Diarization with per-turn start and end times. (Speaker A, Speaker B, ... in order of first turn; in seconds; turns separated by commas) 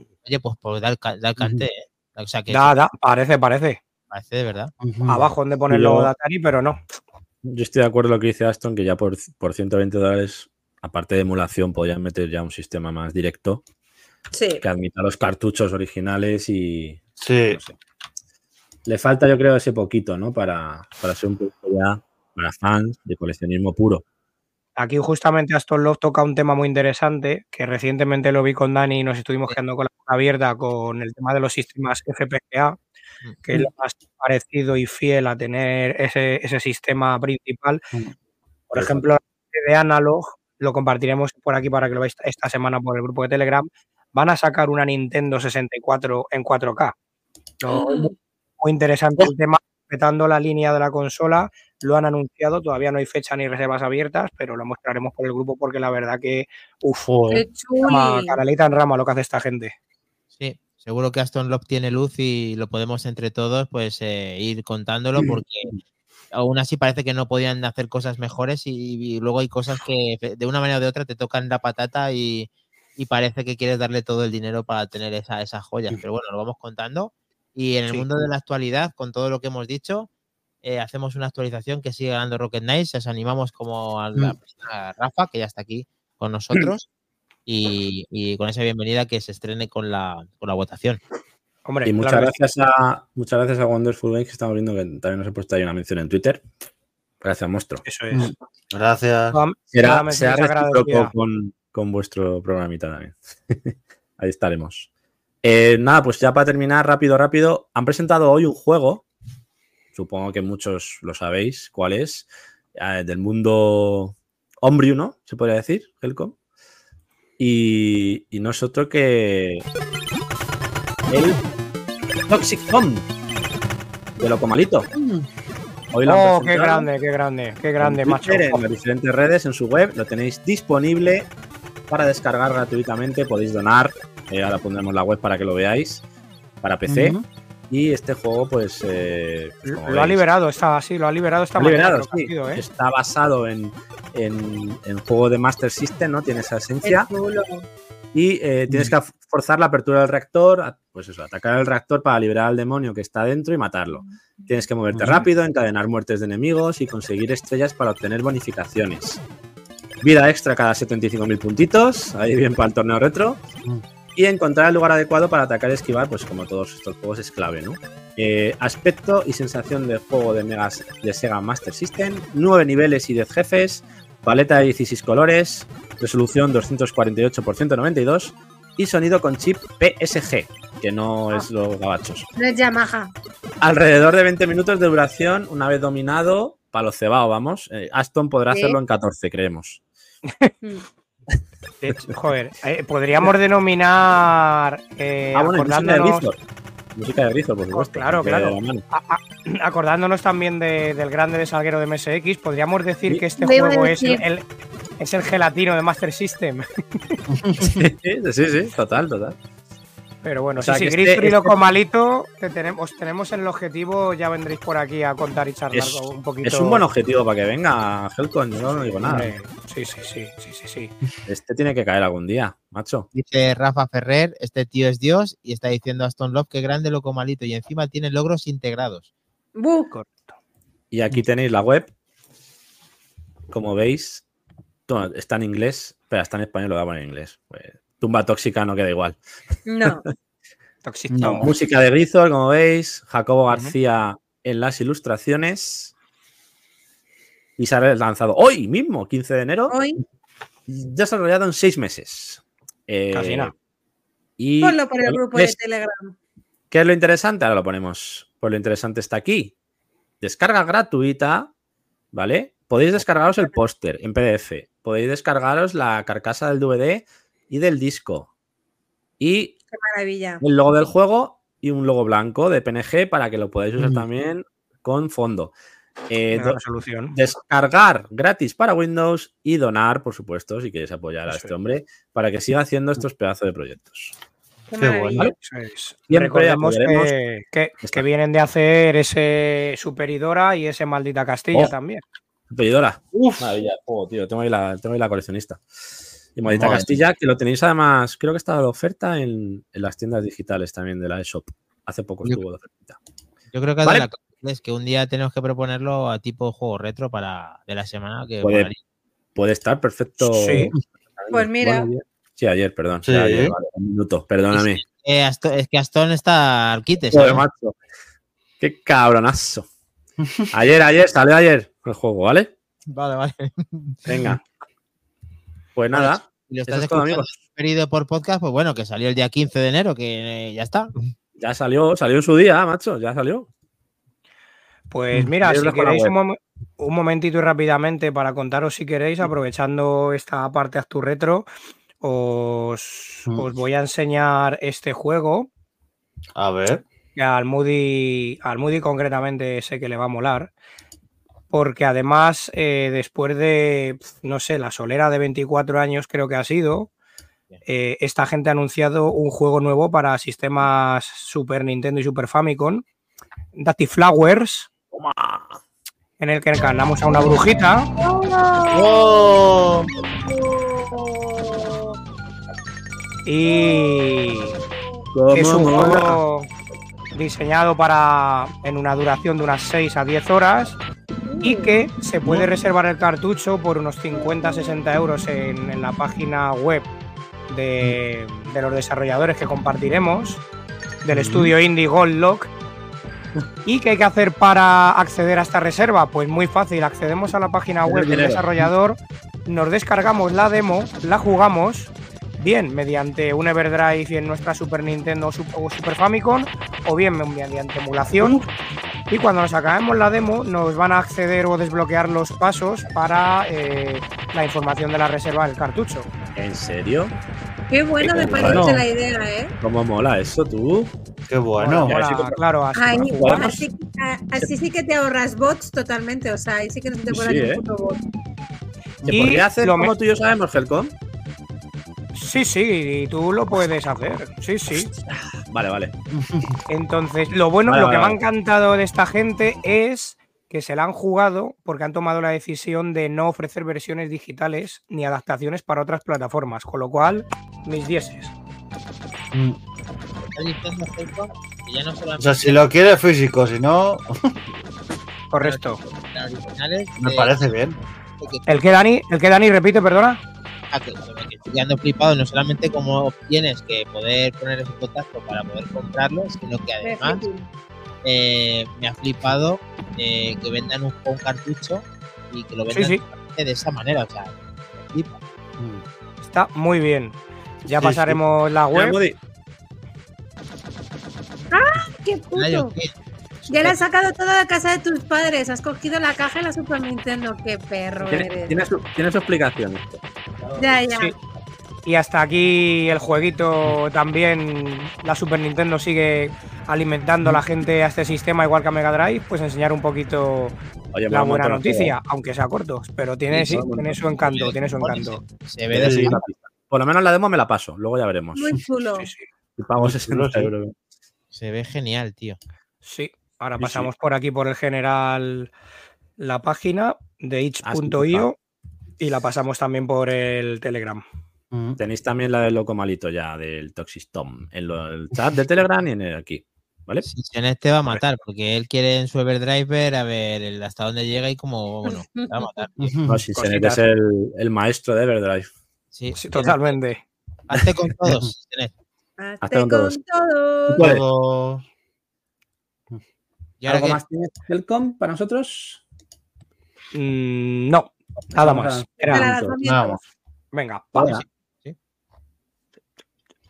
Speaker A: 0.2-2.7, Speaker B: 1.4-1.6, Speaker C: 2.5-3.8, Speaker A: 4.1-4.7, Speaker B: 4.8-5.3, Speaker C: 5.1-6.8, Speaker D: 5.7-6.1, Speaker D: 7.4-13.6, Speaker E: 14.3-14.6, Speaker D: 14.6-17.8, Speaker B: 17.2-17.6, Speaker D: 18.9-24.0, Speaker C: 24.8-32.8, Speaker A: 33.2-33.6, Speaker C: 33.4-37.8, Speaker C: 38.7-46.9, Speaker D: 38.7-39.0, Speaker C: 47.7-48.1, Speaker E: 47.7-48.1, Speaker C: 48.6-57.1, Speaker B: 57.1-57.4, Speaker E: 57.3-58.4, Speaker C: 57.8-59.7, Speaker A: 60.4-65.7, Speaker A: 66.3-80.1, Speaker A: 80.6-86.8, Speaker A: 87.5-91.0, Speaker C: 91.7-92.3, Speaker D: 91.8-96.4, Speaker D: 97.2-97.8, Speaker C: 97.8-98.3, Speaker B: 98.1-99.4, Speaker C: 99.3-101.1, Speaker D: 99.7-104.9, Speaker D: 105.4-109.0, Speaker D: 109.9-116.3, Speaker D: 117.4-119.7, Speaker D: 121.1-121.4, Speaker D: 122.3-123.0, Speaker D: 124.2-124.9, Speaker B: 124.9-125.2, Speaker D: 125.9-126.9, Speaker C: 126.0-128.6, Speaker D: 127.8-131.3, Speaker D: 131.9-136.0, Speaker D: 136.6-137.2, Speaker B: 136.9-137.2, Speaker D: 137.7-140.2, Speaker C: 139.7-142.6, Speaker D: 141.6-147.1, Speaker E: 146.8-147.7, Speaker D: 148.1-159.2, Speaker B: 154.9-155.2, Speaker D: 160.0-163.4, Speaker D: 164.1-182.3, Speaker E: 182.3-183.1, Speaker D: 183.6-189.8, Speaker E: 188.5-188.8, Speaker C: 191.8-196.2, Speaker D: 195.3-196.4, Speaker D: 196.9-198.8, Speaker C: 197.7-204.4, Speaker E: 203.4-204.2, Speaker C: 205.0-207.2, Speaker B: 207.3-207.8, Speaker D: 207.6-209.4, Speaker C: 210.2-216.8, Speaker D: 210.6-211.5, Speaker D: 215.7-219.3, Speaker C: 219.0-220.9, Speaker D: 221.3-223.1, Speaker A: 223.1-229.1, Speaker E: 229.6-229.9, Speaker C: 229.9-230.3, Speaker D: 230.9-231.9, Speaker D: 233.5-234.2, Speaker D: 234.9-239.2, Speaker E: 239.7-240.0, Speaker C: 240.8-241.5, Speaker B: 241.1-241.5, Speaker D: 241.4-245.9, Speaker D: 247.6-249.7, Speaker E: 249.7-250.0, Speaker D: 250.7-253.5, Speaker C: 253.1-253.5, Speaker D: 254.4-255.5, Speaker E: 254.6-256.1, Speaker D: 256.7-259.5, Speaker D: 260.2-261.5, Speaker D: 262.1-268.3, Speaker D: 269.2-269.5, Speaker E: 269.7-270.4, Speaker D: 270.4-275.5, Speaker B: 273.8-274.0, Speaker D: 276.1-276.6, Speaker C: 276.3-277.1, Speaker D: 277.1-284.1, Speaker C: 281.3-281.5, Speaker E: 284.7-285.3, Speaker B: 284.8-285.3, Speaker C: 285.4-292.0, Speaker D: 286.1-287.1, Speaker D: 292.5-295.6, Speaker B: 293.1-293.6, Speaker D: 296.4-303.0, Speaker B: 296.4-297.0, Speaker A: 303.5-308.8, Speaker D: 303.8-304.1, Speaker D: 308.4-308.7, Speaker D: 309.4-314.8, Speaker C: 310.2-310.7, Speaker E: 311.3-311.9, Speaker B: 313.0-313.5, Speaker A: 314.5-317.4, Speaker D: 317.1-317.8, Speaker D: 318.6-319.7, Speaker D: 320.5-322.5, Speaker A: 322.9-324.0, Speaker D: 324.1-324.4, Speaker D: 325.7-327.3, Speaker A: 325.9-330.9, Speaker D: 331.4-333.5, Speaker C: 334.9-341.4, Speaker D: 335.4-336.1, Speaker C: 342.0-345.5, Speaker B: 346.4-346.8, Speaker C: 347.1-350.5, Speaker C: 351.5-356.9, Speaker C: 357.6-362.8, Speaker C: 363.5-364.7, Speaker D: 364.9-365.6, Speaker C: 366.2-367.9, Speaker E: 368.0-372.0, Speaker B: 368.7-369.9, Speaker C: 373.2-374.5, Speaker E: 373.5-374.0, Speaker D: 375.1-376.2, Speaker C: 375.3-376.5, Speaker C: 377.1-380.8, Speaker E: 381.3-381.7, Speaker C: 381.4-386.9, Speaker C: 387.5-390.4, Speaker C: 391.0-392.5, Speaker B: 391.1-391.5, Speaker C: 393.6-408.4, Speaker D: 397.8-398.6, Speaker D: 408.2-408.5, Speaker C: 409.1-416.1, Speaker D: 416.3-417.1, Speaker E: 417.7-419.5, Speaker D: 418.0-418.8, Speaker D: 419.6-420.9, Speaker B: 421.3-421.9, Speaker C: 421.6-423.1, Speaker D: 421.9-422.4, Speaker E: 422.7-428.0, Speaker D: 422.9-423.6, Speaker D: 427.1-427.6, Speaker D: 429.1-430.9, Speaker C: 429.1-429.9, Speaker C: 432.1-434.9, Speaker D: 434.9-435.9, Speaker B: 436.1-436.6, Speaker C: 436.7-448.3, Speaker D: 437.7-438.2, Speaker A: 450.2-452.6, Speaker B: 452.2-454.3, Speaker C: 455.3-455.8, Speaker A: 455.4-457.3, Speaker B: 457.0-457.8, Speaker A: 458.2-458.7, Speaker C: 458.5-460.2, Speaker A: 460.7-467.2, Speaker E: 466.8-467.5, Speaker A: 468.0-475.2, Speaker C: 472.7-473.0, Speaker C: 476.2-479.0, Speaker D: 477.8-478.2, Speaker D: 478.7-479.2, Speaker E: 481.5-482.7, Speaker A: 482.3-483.8, Speaker E: 483.5-488.6, Speaker D: 488.1-489.9, Speaker E: 490.6-491.1, Speaker C: 491.8-500.6, Speaker D: 500.9-501.9, Speaker C: 501.1-505.2, Speaker D: 503.3-504.5, Speaker A: 504.8-506.2, Speaker D: 505.7-508.5, Speaker B: 505.8-506.2, Speaker E: 508.3-509.1, Speaker C: 509.0-509.2, Speaker D: 509.6-510.7, Speaker B: 509.8-510.5, Speaker A: 511.3-512.4, Speaker C: 512.8-515.5, Speaker D: 513.6-513.9, Speaker C: 516.2-518.4, Speaker D: 517.6-518.3, Speaker C: 519.0-521.0, Speaker B: 521.5-521.8, Speaker D: 521.8-527.1, Speaker A: 527.0-532.9, Speaker E: 531.9-532.5, Speaker B: 532.8-533.2, Speaker D: 533.1-535.5, Speaker C: 533.3-533.8, Speaker A: 535.9-536.8, Speaker C: 536.1-537.0, Speaker A: 537.5-538.7, Speaker E: 539.2-540.8, Speaker D: 539.4-540.0, Speaker D: 540.7-541.0, Speaker B: 540.8-541.6, Speaker A: 543.6-544.0, Speaker D: 543.6-545.8, Speaker C: 546.9-549.3, Speaker D: 548.3-549.5, Speaker E: 549.1-550.0, Speaker B: 549.6-550.0, Speaker C: 550.5-550.9, Speaker D: 550.9-551.2, Speaker A: 550.9-551.8